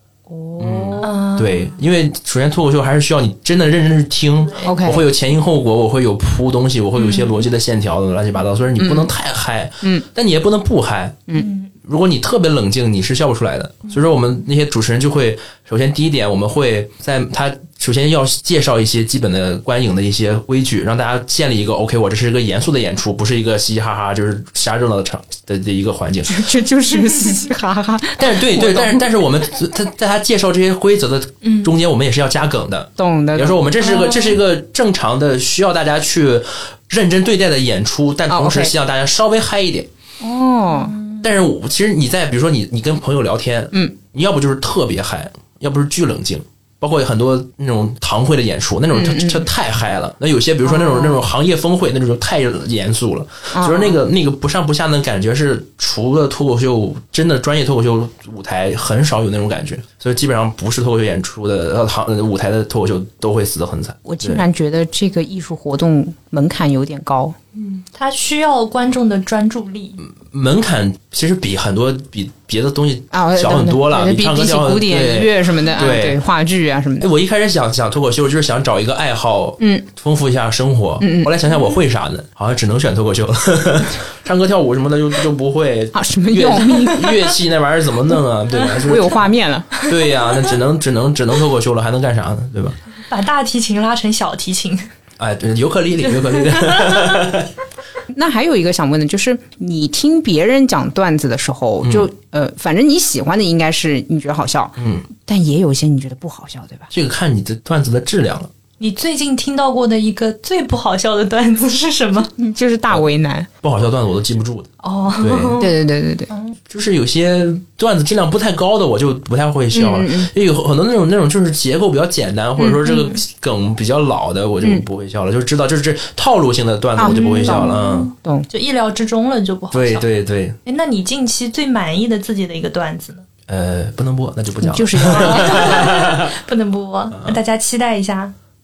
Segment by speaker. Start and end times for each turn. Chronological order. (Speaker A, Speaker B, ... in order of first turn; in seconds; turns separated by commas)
Speaker A: 0.3-1.1, Speaker B: 0.6-11.2, Speaker C: 1.0-1.7, Speaker A: 4.6-5.0, Speaker A: 8.8-9.1, Speaker C: 11.3-11.7, Speaker B: 11.8-26.5, Speaker A: 26.3-29.0, Speaker B: 28.2-39.9, Speaker C: 31.4-31.7, Speaker A: 33.0-34.2, Speaker A: 38.3-38.7, Speaker A: 40.2-40.9, Speaker C: 40.7-41.2, Speaker B: 41.2-64.4, Speaker A: 48.9-49.5, Speaker A: 50.6-51.2, Speaker A: 53.5-54.0, Speaker A: 64.0-67.3, Speaker C: 67.5-70.0, Speaker B: 70.0-76.2, Speaker A: 73.1-77.1, Speaker B: 77.0-89.3, Speaker A: 79.6-79.8, Speaker A: 81.0-81.3, Speaker A: 85.9-87.3, Speaker A: 88.8-89.7, Speaker B: 89.8-92.8, Speaker C: 93.1-94.9, Speaker B: 95.2-97.5, Speaker C: 96.3-97.2, Speaker A: 98.1-106.9, Speaker B: 101.8-102.1, Speaker B: 104.8-105.1, Speaker B: 106.9-108.5, Speaker C: 108.8-112.3, Speaker A: 112.3-113.5, Speaker B: 113.6-115.6, Speaker C: 114.8-115.7, Speaker A: 115.6-116.3, Speaker C: 116.3-116.5, Speaker B: 116.7-128.1, Speaker A: 119.7-120.3, Speaker A: 122.6-122.8, Speaker C: 122.8-123.2, Speaker A: 127.0-128.5, Speaker C: 127.0-130.1, Speaker B: 129.7-130.6, Speaker C: 130.7-133.2, Speaker B: 133.5-136.3, Speaker A: 134.6-135.8, Speaker C: 135.0-138.3